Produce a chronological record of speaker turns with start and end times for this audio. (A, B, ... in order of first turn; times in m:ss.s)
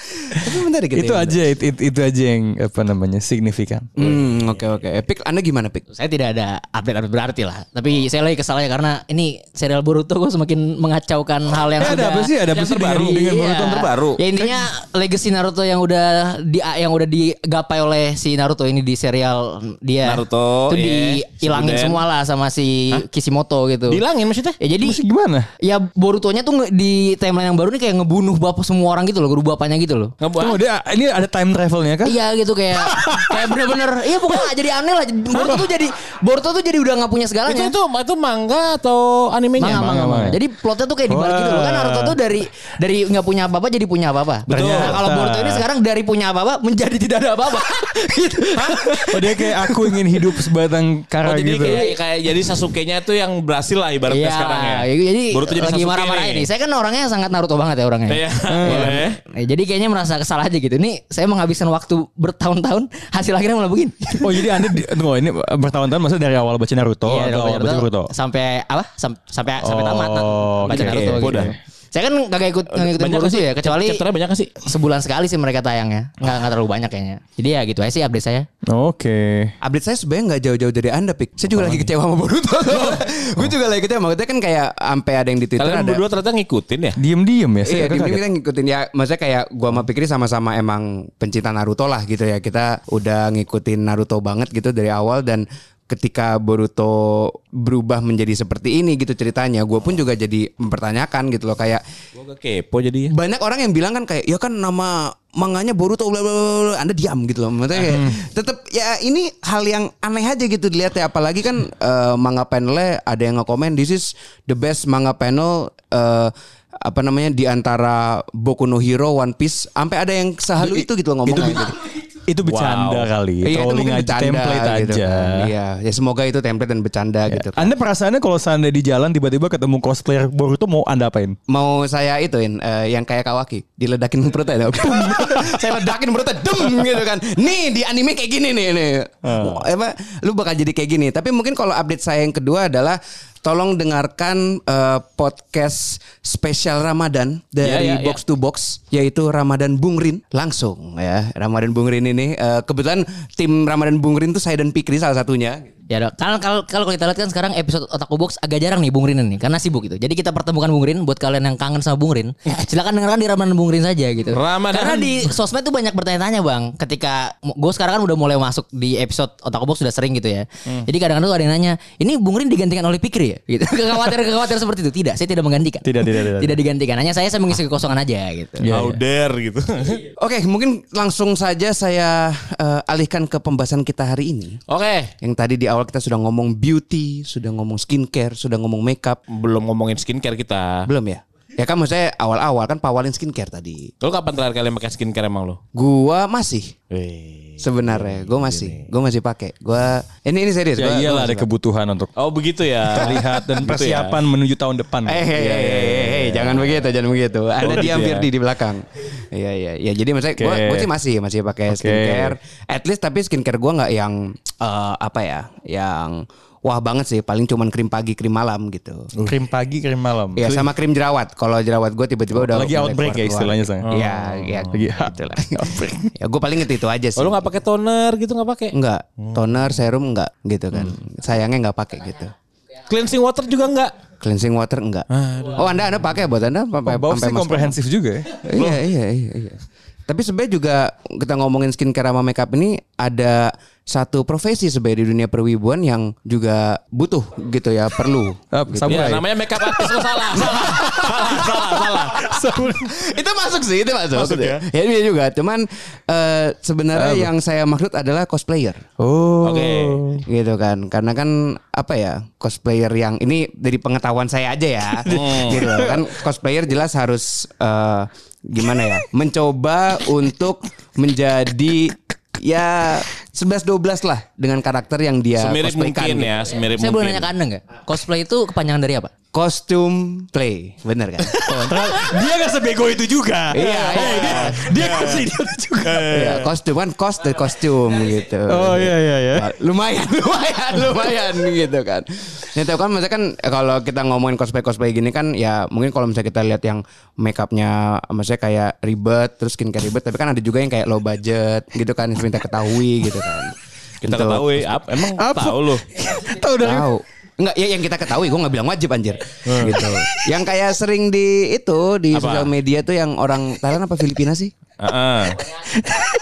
0:00.3-0:01.4 A
0:00.3-0:03.9 B
0:04.0-0:05.8 A
0:05.9-0:24.0 C
0:11.8-0:14.7 B
0:12.5-0:14.2 D
0:20.0-0:22.0 D
0:23.9-0:24.6 D
0:24.6-0:25.0 C
0:24.8-0:25.5 B
0:25.6-0:30.1 C
0:30.2-0:30.6 D
0:30.4-0:32.2 B
0:32.0-0:37.7 C
0:32.8-0:34.5 B
0:35.3-0:35.7 B
0:37.4-0:39.8 D
0:39.6-0:50.5 C
0:39.6-0:40.4 B
0:41.1-0:42.2 B
0:44.4-0:45.6 B
0:44.5-0:45.0 D
0:48.6-0:49.0 D
0:49.1-0:51.8 B
0:51.2-0:56.5 D
0:51.6-0:51.9 C
0:54.1-1:04.8 C
0:58.1-0:59.2 D
0:58.5-0:59.0 B
1:04.2-1:08.1 B
1:07.0-1:14.0 C
1:09.6-1:11.6 B
1:10.7-1:11.6 D
1:12.7-1:14.5 D
1:14.6-1:18.5 C
1:18.6-1:19.5 B
1:19.6-1:26.0 A
1:21.5-1:21.9 B
1:25.6-1:27.0 D
1:27.0-1:28.2 B
1:27.6-1:41.8 A
1:42.2-1:43.1 D
1:43.1-2:01.8 A
1:47.7-1:48.1 D
2:00.6-2:01.7 B
2:02.3-2:05.5 B
2:02.4-2:03.1 D
2:03.4-2:07.7 A
2:07.3-2:11.4 B
2:11.5-2:35.7 A
2:15.0-2:15.6 B
2:19.2-2:19.6 B
2:27.6-2:28.2 D
2:35.9-2:58.7 C
2:44.3-2:45.3 D
2:55.8-2:56.6 B
2:58.6-2:59.0 B
2:58.7-3:00.0 D
3:00.2-3:04.6 A
3:04.7-3:05.1 D
3:05.2-3:09.2 A
3:09.3-3:10.9 D
3:10.8-3:13.9 A
3:14.0-3:15.6 D
3:15.7-3:16.7 A
3:16.9-3:18.9 D
3:17.6-3:21.5 A
3:20.8-3:22.1 B
3:22.2-3:24.2 D
3:22.9-3:26.7 B
3:25.0-3:39.1 A
3:27.6-3:28.3 D
3:30.4-3:30.9 B
3:31.7-3:32.4 B
3:39.2-3:40.6 B
3:40.4-3:47.5 A
3:42.3-3:44.0 B
3:43.9-3:44.6 D
3:44.6-3:46.1 B
3:47.2-3:49.8 D
3:48.7-3:52.3 A
3:52.9-3:54.0 D
3:54.2-3:57.8 A
3:55.1-3:55.9 D
3:56.8-3:58.4 B
3:58.4-4:09.2 A
3:58.5-3:58.8 D
4:08.5-4:09.9 B
4:08.8-4:12.3 D
4:10.3-4:18.8 A
4:12.2-4:12.9 B
4:14.1-4:14.6 D
4:16.9-4:17.3 B
4:19.0-4:20.2 B
4:19.4-4:20.0 D
4:20.2-4:36.3 A
4:25.0-4:26.0 B
4:25.1-4:25.7 D
4:35.4-4:37.3 D
4:36.8-4:39.1 C
4:39.3-4:41.6 A
4:41.4-4:46.2 B
4:43.5-4:45.0 A
4:43.6-4:45.2 D
4:45.8-4:46.5 D
4:46.1-5:04.6 A
4:48.5-4:49.5 B
5:04.0-5:05.8 D
5:05.1-5:06.9 B
5:06.6-5:14.5 A
5:09.4-5:09.8 D
5:09.6-5:10.0 B
5:12.1-5:12.5 D
5:14.8-5:15.4 D